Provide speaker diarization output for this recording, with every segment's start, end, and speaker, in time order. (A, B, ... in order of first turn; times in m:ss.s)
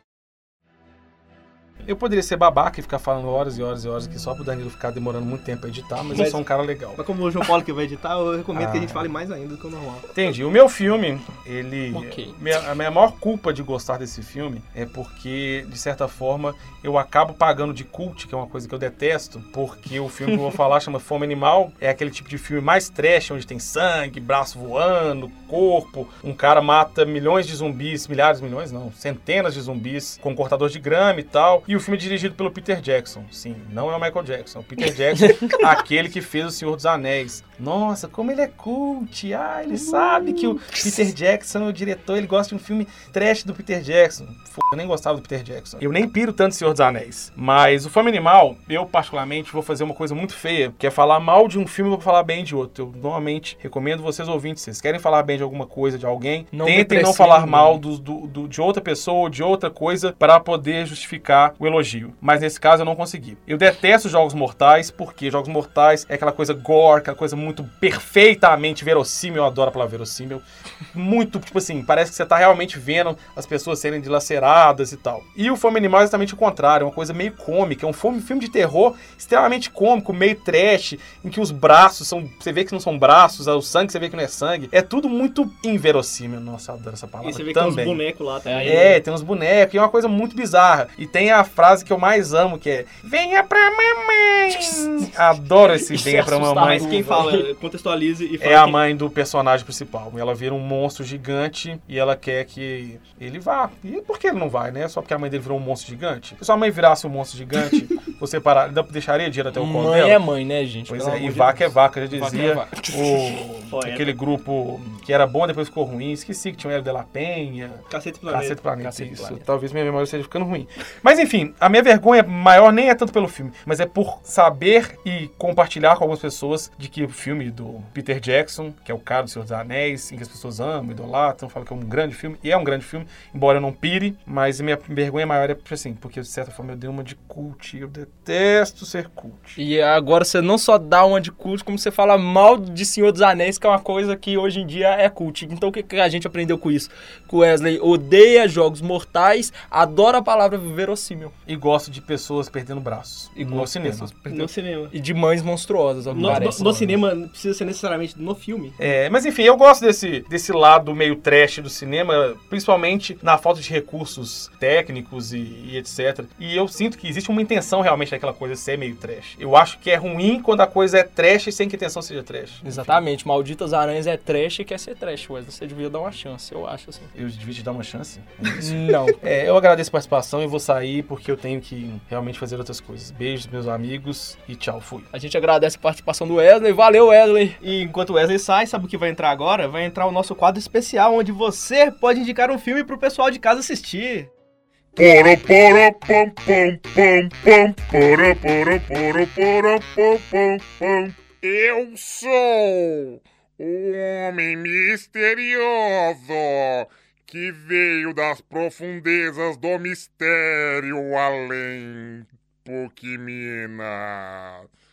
0:01.8-0:07.0 A
0:06.1-0:06.4 B
0:07.0-0:10.1 B
0:08.5-0:09.0 A
0:10.1-1:28.0 A
0:11.9-0:12.4 C
0:35.2-0:35.6 C
0:39.7-0:41.1 C
0:56.5-0:57.8 C
1:27.2-1:29.0 B
1:28.4-1:28.9 C
1:28.6-1:37.0 A
1:35.7-1:37.5 C
1:36.6-1:38.8 B
1:38.4-1:50.2 A
1:49.5-1:53.4 C
1:50.9-2:19.6 A
1:53.7-1:54.1 B
1:57.9-1:58.6 B
1:58.8-1:59.4 C
2:19.6-2:31.4 C
2:31.4-2:34.1 A
2:33.4-2:37.0 C
2:34.3-2:34.9 B
2:36.1-2:36.8 A
2:36.1-2:38.8 B
2:38.8-2:53.0 A
2:52.6-2:57.1 C
2:57.1-3:05.1 A
2:58.6-2:59.2 C
3:05.1-3:07.6 C
3:07.6-3:14.3 B
3:15.0-3:34.7 D